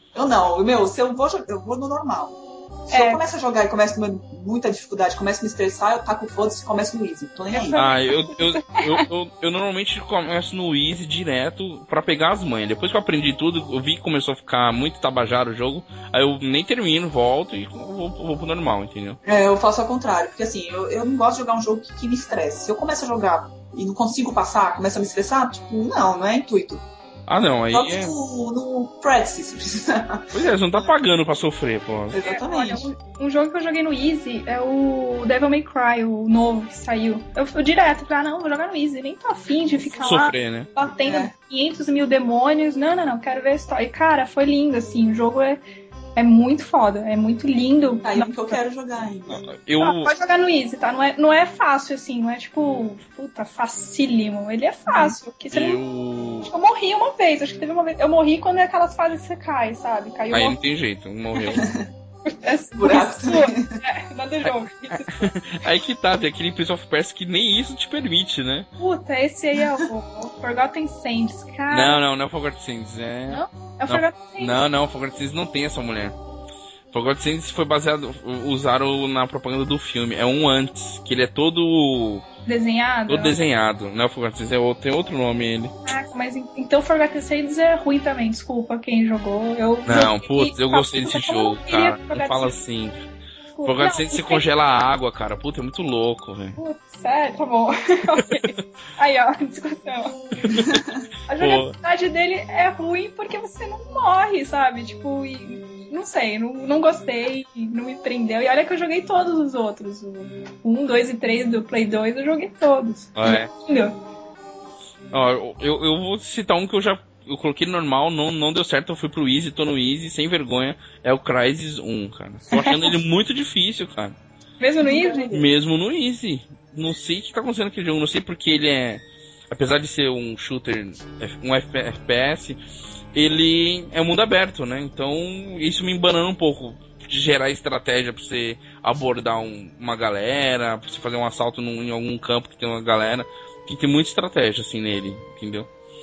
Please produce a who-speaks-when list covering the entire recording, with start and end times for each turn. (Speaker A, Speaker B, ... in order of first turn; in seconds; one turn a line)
Speaker A: 0.1-7.8
Speaker B: 2.9-3.2
Speaker B: 7.5-9.1
Speaker C: 7.7-19.2
Speaker A: 19.2-26.8
Speaker C: 27.3-28.1
Speaker A: 27.7-30.9
Speaker C: 30.3-32.2
Speaker A: 32.1-32.9
Speaker B: 32.2-45.6
Speaker C: 40.0-40.7
Speaker A: 41.0-41.3
Speaker B: 46.1-48.3
Speaker A: 48.0-49.4
Speaker C: 49.3-50.1
Speaker B: 49.8-55.8
Speaker C: 55.5-56.5
Speaker B: 56.4-60.6
Speaker C: 60.3-61.7
Speaker A: 61.5-61.9
Speaker B: 62.2-65.3
Speaker A: 62.8-63.8
Speaker C: 64.5-68.7
Speaker B: 68.8-72.0
Speaker C: 71.7-76.2
Speaker B: 73.3-74.6
Speaker C: 76.9-82.2
Speaker B: 82.5-83.4
Speaker C: 83.1-85.7
Speaker B: 85.8-92.5
Speaker C: 89.8-93.0
Speaker B: 93.5-94.5
Speaker C: 93.6-96.6
Speaker B: 96.6-100.6
Speaker C: 100.4-100.8
Speaker A: 100.6-101.0
Speaker B: 101.3-114.0
Speaker C: 101.4-101.7
Speaker C: 113.1-113.5
Speaker C: 115.1-124.2
Speaker B: 122.5-122.9
Speaker B: 124.6-125.3
Speaker A: 124.8-125.5
Speaker C: 125.3-132.6
Speaker C: 133.1-145.7